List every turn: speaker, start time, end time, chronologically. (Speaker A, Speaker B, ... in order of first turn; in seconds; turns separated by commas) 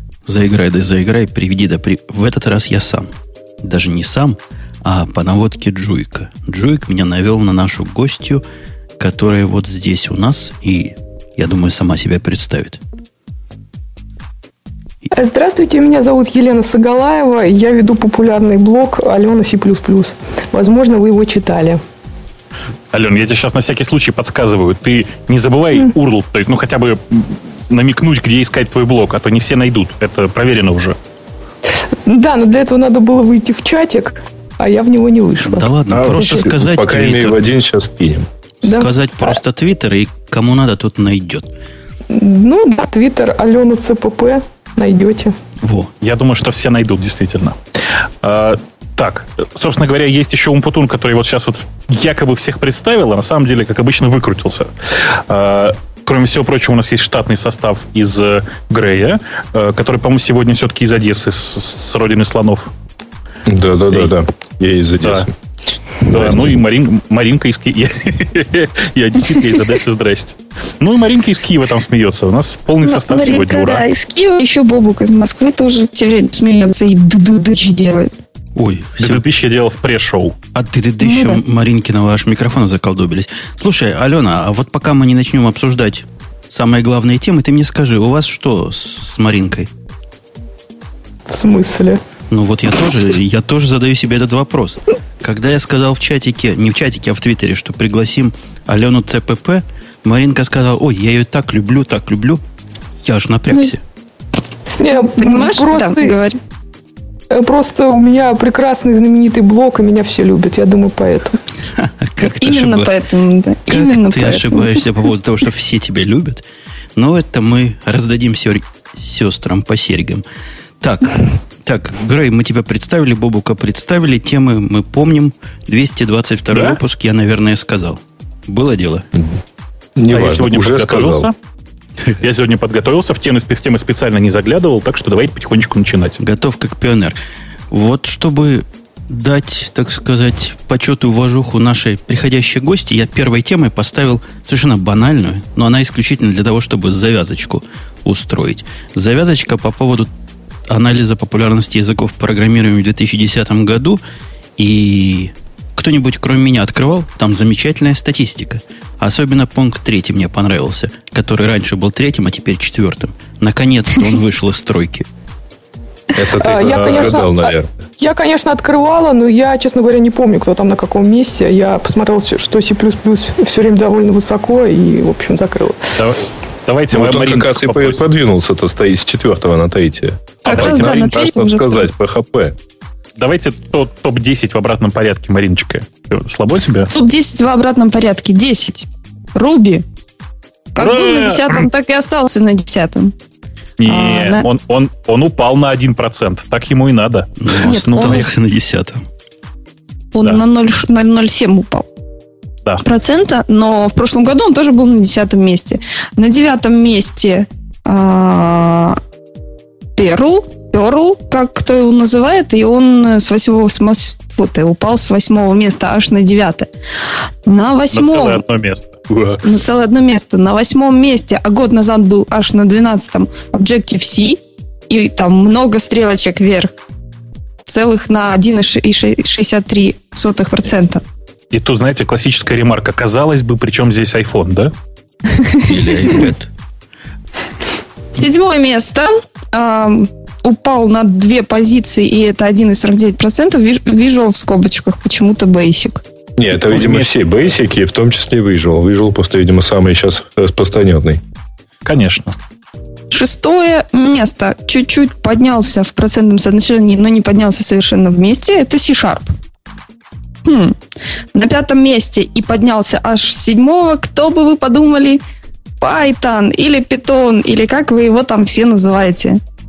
Speaker A: 0.3-8.4, Speaker A: 9.0-12.8, Speaker B: 15.1-21.8, Speaker C: 22.9-31.0, Speaker B: 32.0-36.3, Speaker A: 35.4-37.4, Speaker D: 35.9-38.3, Speaker A: 38.6-41.5, Speaker B: 38.6-38.9, Speaker B: 42.1-45.4, Speaker A: 45.6-45.9, Speaker C: 46.0-62.7, Speaker D: 63.5-65.3, Speaker C: 65.0-65.3, Speaker C: 66.0-73.8, Speaker D: 66.1-66.5, Speaker E: 72.8-78.1, Speaker A: 78.6-79.2, Speaker C: 79.0-80.4, Speaker A: 80.5-89.7, Speaker E: 81.0-81.4, Speaker B: 91.3-92.0, Speaker A: 92.3-102.4, Speaker A: 103.0-103.8, Speaker B: 104.8-106.2, Speaker E: 105.2-106.4, Speaker B: 107.3-111.4, Speaker A: 111.8-113.0, Speaker E: 112.2-114.8, Speaker A: 113.7-116.4, Speaker A: 117.0-120.2, Speaker A: 120.8-129.1, Speaker C: 126.5-126.8, Speaker D: 130.0-131.3, Speaker C: 130.1-131.3, Speaker C: 132.2-136.2, Speaker A: 136.2-137.2, Speaker A: 137.7-150.1, Speaker A: 150.7-154.0, Speaker A: 154.6-165.1, Speaker D: 166.2-167.7, Speaker B: 166.3-175.9, Speaker C: 176.0-178.1, Speaker D: 176.9-182.6, Speaker C: 180.4-181.2, Speaker E: 180.4-181.9, Speaker C: 183.2-186.9, Speaker E: 186.9-189.8, Speaker E: 190.7-193.1, Speaker C: 190.8-191.7, Speaker C: 193.8-198.3, Speaker E: 193.8-194.5, Speaker A: 197.4-199.1, Speaker E: 197.6-198.3, Speaker E: 200.1-201.9, Speaker E: 202.8-209.0, Speaker E: 210.0-216.7, Speaker E: 217.5-218.4, Speaker C: 217.9-219.4, Speaker E: 219.4-226.7, Speaker E: 227.7-231.0, Speaker C: 231.5-234.7, Speaker E: 235.3-236.3, Speaker A: 235.6-236.5, Speaker E: 238.1-246.0, Speaker D: 246.4-251.2, Speaker C: 246.6-247.3, Speaker C: 251.8-252.4, Speaker E: 253.1-259.3, Speaker E: 260.4-260.8, Speaker E: 261.3-265.2, Speaker E: 265.8-269.4